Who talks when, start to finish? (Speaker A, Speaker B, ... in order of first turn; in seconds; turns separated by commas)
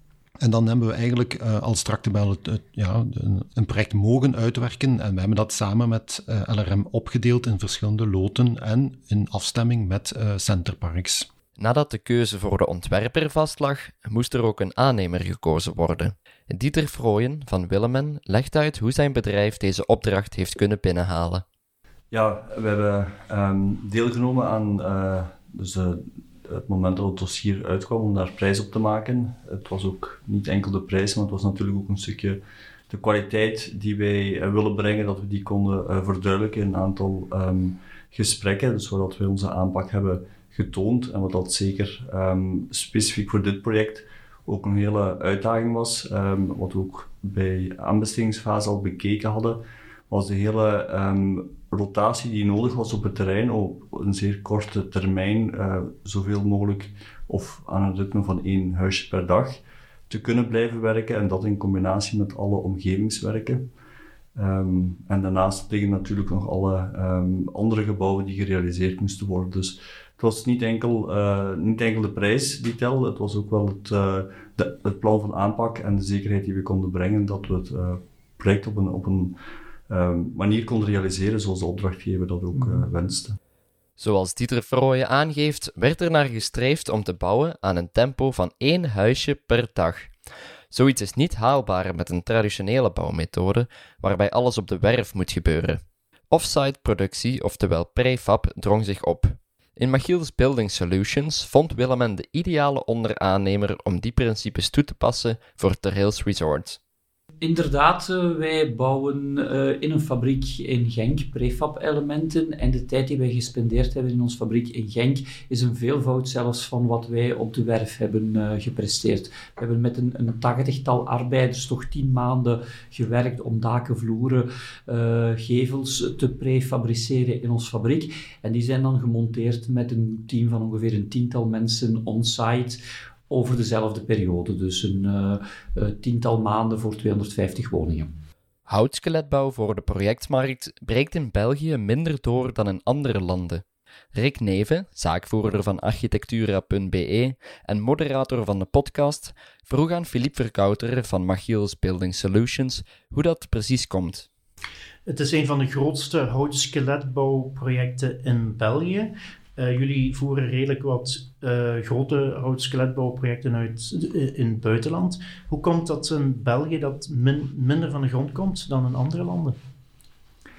Speaker A: 0.4-11.3, Speaker B: 11.6-21.4, Speaker C: 22.1-32.4, Speaker C: 32.9-59.6, Speaker C: 60.1-63.7, Speaker C: 64.4-79.3, Speaker C: 79.9-83.4, Speaker B: 84.0-90.1, Speaker B: 90.7-106.8, Speaker D: 107.4-138.1, Speaker B: 138.7-143.6, Speaker B: 144.1-154.3, Speaker E: 155.1-169.6